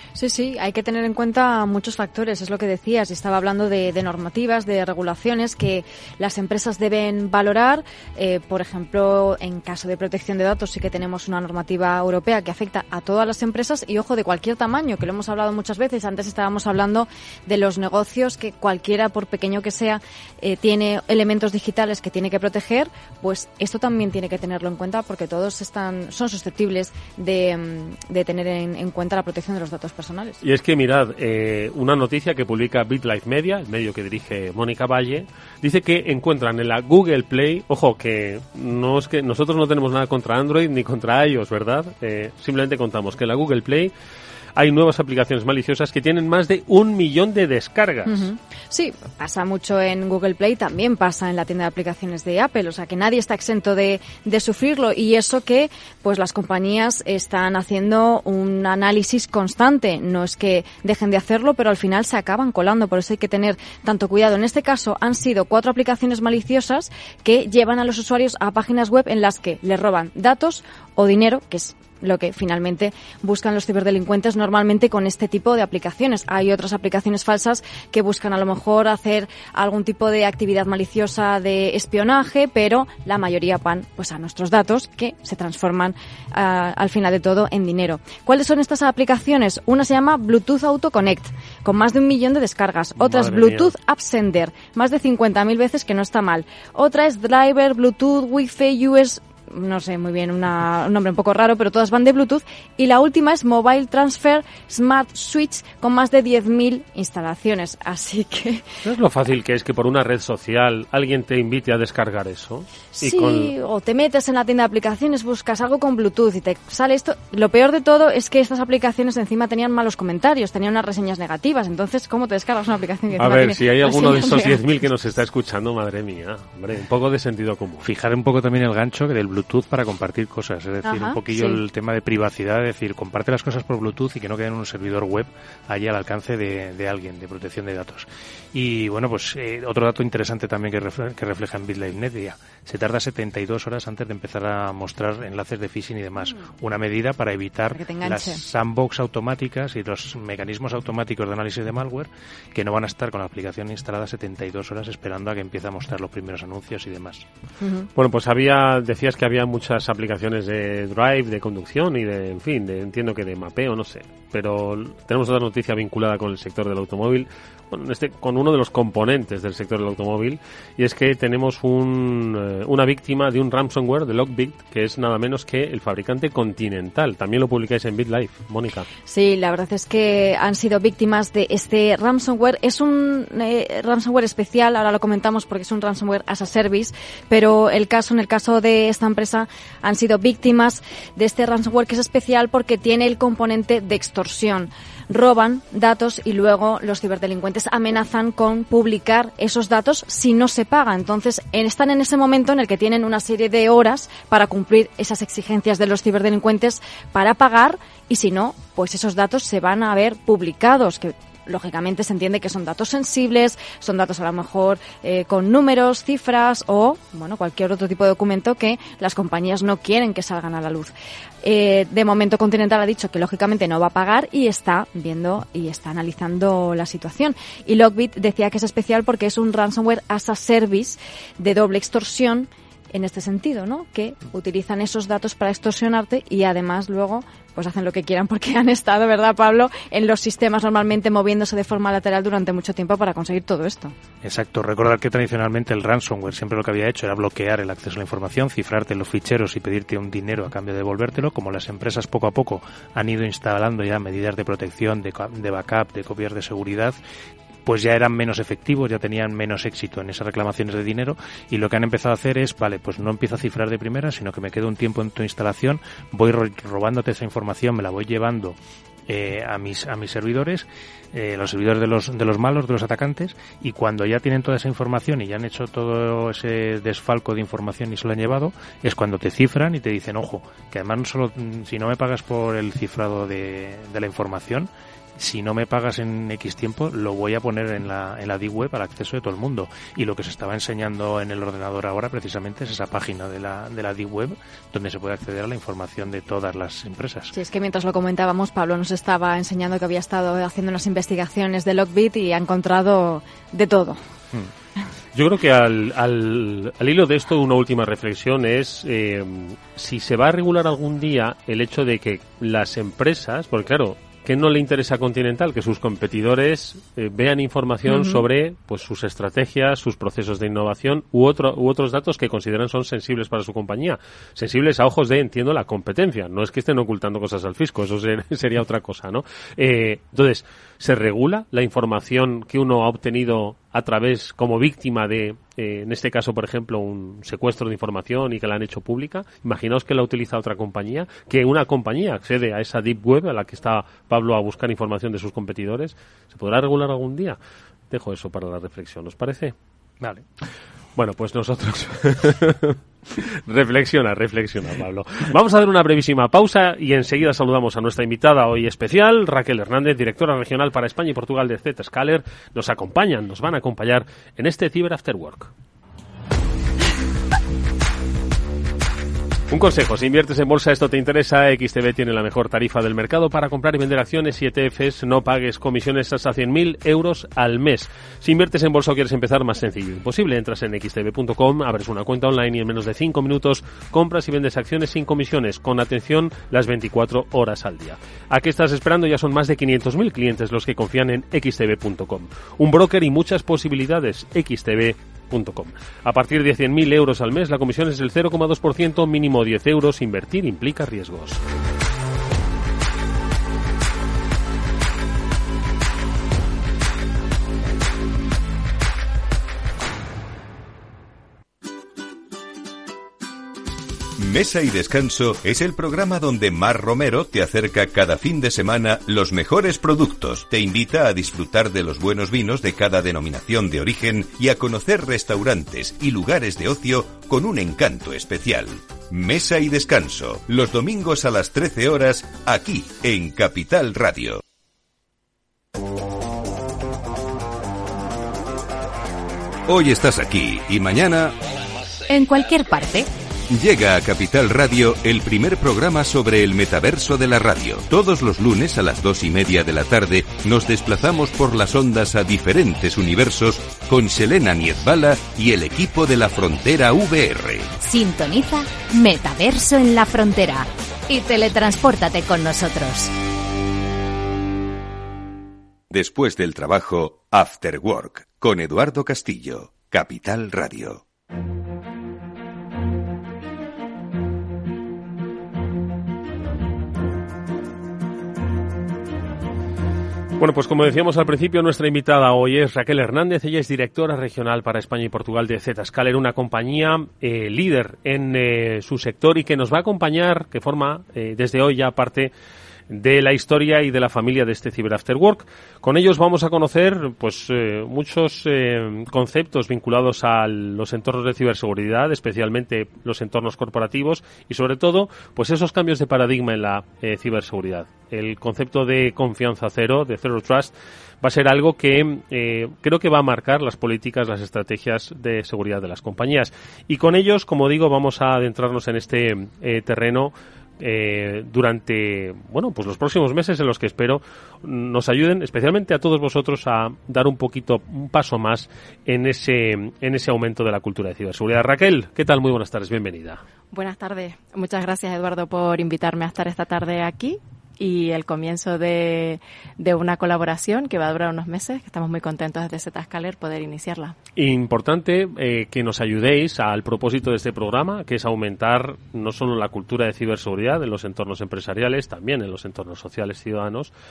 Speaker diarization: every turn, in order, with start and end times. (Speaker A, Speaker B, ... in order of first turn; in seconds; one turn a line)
Speaker A: 0.1-30.4
Speaker B: 30.4-43.9
Speaker B: 44.5-48.3
Speaker A: 48.0-108.8
Speaker B: 93.0-93.7
Speaker B: 108.8-113.5
Speaker A: 113.0-124.6
Speaker B: 123.2-127.8
Speaker C: 127.8-157.2
Speaker A: 130.8-131.6
Speaker A: 147.7-148.4
Speaker A: 157.6-157.9
Speaker B: 157.9-178.9
Speaker A: 179.1-243.9
Speaker C: 244.2-257.0
Speaker C: 257.6-297.3
Speaker A: 297.3-304.0
Speaker B: 305.1-347.4
Speaker A: 317.9-318.2
Speaker B: 347.9-349.5
Speaker B: 350.9-365.5
Speaker B: 369.5-401.4
Speaker D: 414.2-434.4
Speaker D: 439.7-441.4
Speaker E: 442.1-443.1
Speaker D: 443.5-457.7
Speaker E: 457.8-463.1
Speaker D: 465.9-471.0
Speaker B: 480.4-492.3
Speaker B: 492.9-533.4
Speaker F: 533.7-544.1
Speaker B: 544.4-553.9